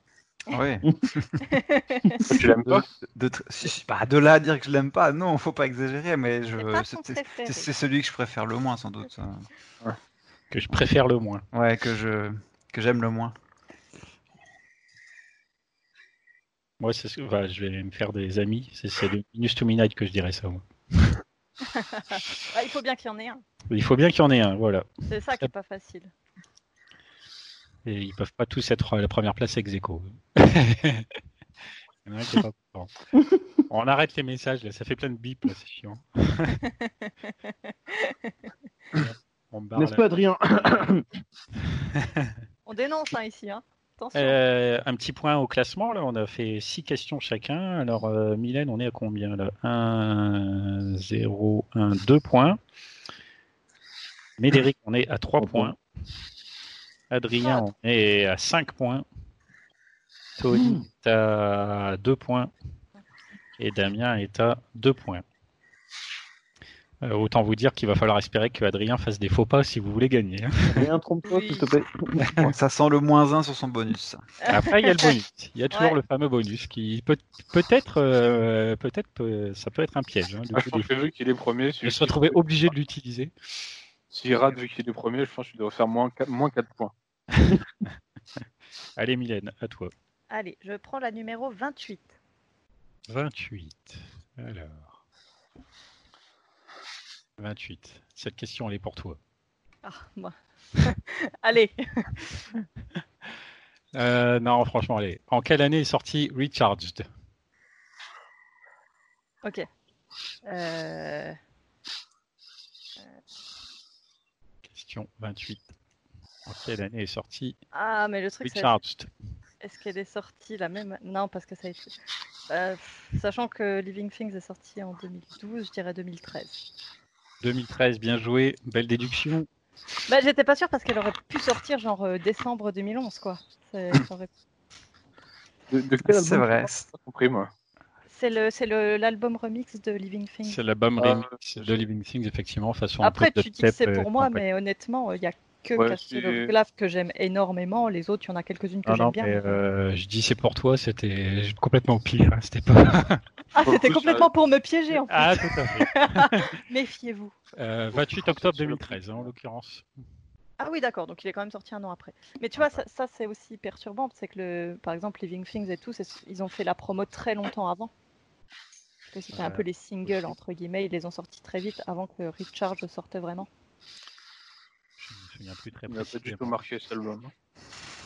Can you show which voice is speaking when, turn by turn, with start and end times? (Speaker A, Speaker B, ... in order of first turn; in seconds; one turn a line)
Speaker A: 0.5-1.5
Speaker B: 1.5-2.2
Speaker C: 2.3-2.9
Speaker A: 2.7-9.5
Speaker B: 6.6-7.7
Speaker D: 10.5-11.4
Speaker A: 11.5-13.3
Speaker D: 16.8-21.2
Speaker B: 21.6-23.4
Speaker D: 23.7-25.5
Speaker B: 25.1-26.1
Speaker D: 27.9-31.1
Speaker D: 32.0-32.9
Speaker D: 33.7-36.6
Speaker B: 36.6-38.3
Speaker D: 39.0-40.0
Speaker E: 39.8-41.0
Speaker D: 42.0-42.3
Speaker B: 42.7-44.4
Speaker D: 44.1-52.6
Speaker D: 54.4-55.8
Speaker E: 55.4-55.7
Speaker D: 57.1-59.0
Speaker B: 57.4-57.7
Speaker D: 60.4-62.5
Speaker E: 60.5-60.8
Speaker D: 63.6-65.2
Speaker D: 67.0-70.8
Speaker E: 70.7-72.2
Speaker B: 71.2-71.7
Speaker D: 72.2-72.5
Speaker A: 72.4-74.2
Speaker B: 74.4-75.1
Speaker D: 74.5-80.9
Speaker C: 80.5-82.7
Speaker D: 81.8-83.3
Speaker C: 84.1-86.9
Speaker D: 87.4-87.9
Speaker D: 89.0-89.9
Speaker B: 90.3-92.1
Speaker D: 93.1-95.0
Speaker D: 97.4-99.2
Speaker B: 99.8-102.7
Speaker D: 104.0-107.1
Speaker B: 110.5-111.4
Speaker D: 114.7-115.7
Speaker D: 116.5-117.6
Speaker B: 117.7-118.8
Speaker D: 118.4-119.1
Speaker B: 119.6-122.0
Speaker B: 122.5-126.6
Speaker D: 127.4-129.5
Speaker B: 130.1-134.3
Speaker C: 135.7-137.5
Speaker A: 136.0-136.9
Speaker B: 138.1-140.6
Speaker D: 140.4-144.4
Speaker C: 141.0-141.8
Speaker B: 143.0-149.6
Speaker C: 145.8-146.5
Speaker D: 148.8-153.2
Speaker B: 153.5-157.3
Speaker C: 153.6-154.3
Speaker D: 155.1-156.5
Speaker D: 157.6-159.9
Speaker C: 157.9-159.3
Speaker B: 160.6-167.9
Speaker B: 169.1-173.5
Speaker D: 169.3-170.3
Speaker D: 175.0-176.6
Speaker C: 175.9-177.3